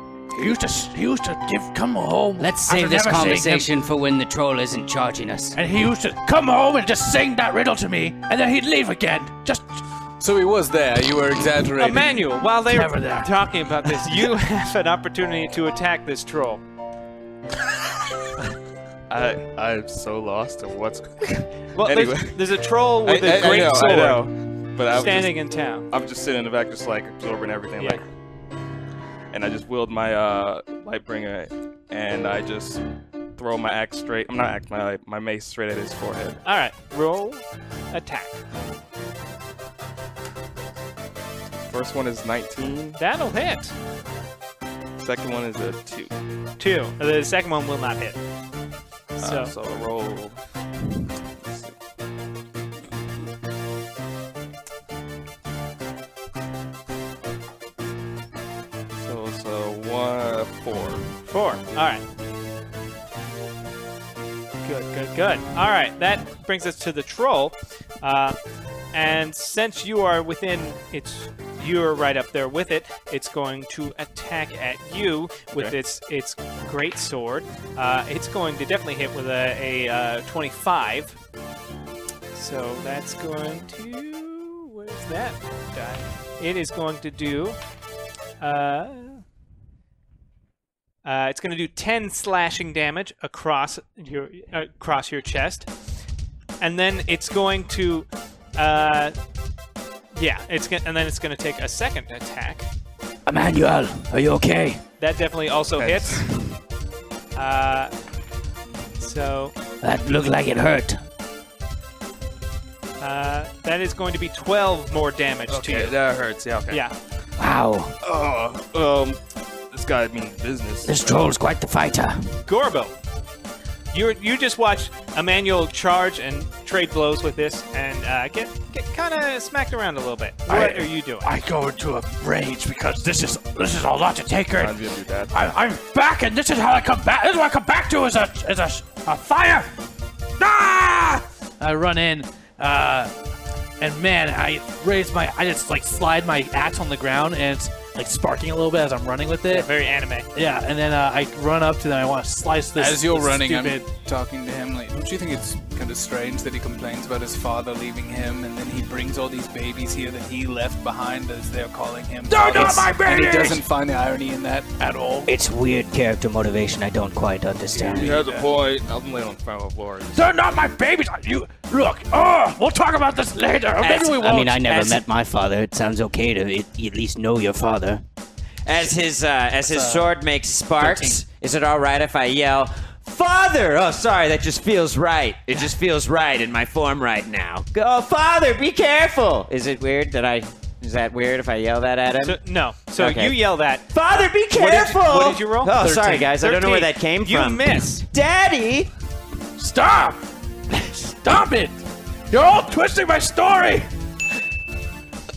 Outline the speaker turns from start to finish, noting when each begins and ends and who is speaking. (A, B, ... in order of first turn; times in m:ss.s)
0:00.3-0:03.7 A
0:02.4-0:05.6 B
0:05.6-0:09.8 A
0:10.2-0:12.2 C
0:11.8-0:16.6 D
0:12.7-0:13.3 A
0:19.1-0:22.5 E
0:21.7-0:24.3 D
0:23.0-0:25.4 E
0:24.9-0:25.9 D
0:25.9-0:28.0 E
0:29.3-0:32.8 E
0:33.4-0:36.4 E
0:36.4-0:38.4 D
0:41.6-0:43.0 E
0:43.0-0:43.7 D
0:45.0-0:46.1 E
0:46.6-0:48.2 D
0:49.1-0:49.5 D
0:49.2-0:50.4 E
0:51.4-0:51.8 E
0:58.9-1:01.1 E
1:01.3-1:02.0 D
1:04.6-1:08.4 D
1:08.9-1:21.2 D
1:22.3-1:27.6 D
1:28.4-1:29.2 D
1:31.0-1:35.7 D
1:36.6-1:39.1 D
1:40.1-1:42.7 D
1:43.3-1:44.8 B
1:45.0-1:46.2 D
1:45.8-1:46.2 E
1:47.3-1:47.9 D
1:49.0-1:49.5 D
1:49.8-1:51.0 B
1:53.0-1:56.0 D
1:55.5-1:56.8 E
1:56.7-1:57.0 D
1:57.4-1:57.9 B
1:58.0-1:59.2 E
1:59.7-2:01.3 E
2:00.9-2:02.4 B
2:02.4-2:02.9 D
2:03.9-2:11.3 D
2:10.5-2:14.8 A
2:14.6-2:15.4 E
2:15.3-2:19.7 A
2:20.4-2:23.1 A
2:23.8-2:29.7 A
2:29.5-2:30.3 D
2:30.3-2:33.8 A
2:32.8-2:44.7 C
2:42.3-2:43.6 A
2:42.5-2:42.8 B
2:44.8-2:45.3 A
2:45.3-2:48.2 B
2:47.7-2:50.3 E
2:47.8-2:48.1 A
2:50.1-2:54.6 A
2:53.8-2:55.0 F
2:54.3-2:58.0 B
2:58.6-3:12.4 F
2:59.7-3:00.0 C
3:00.8-3:01.1 C
3:12.2-3:18.1 D
3:13.0-3:13.4 F
3:13.9-3:18.9 F
3:19.6-3:21.8 A
3:22.3-3:23.9 A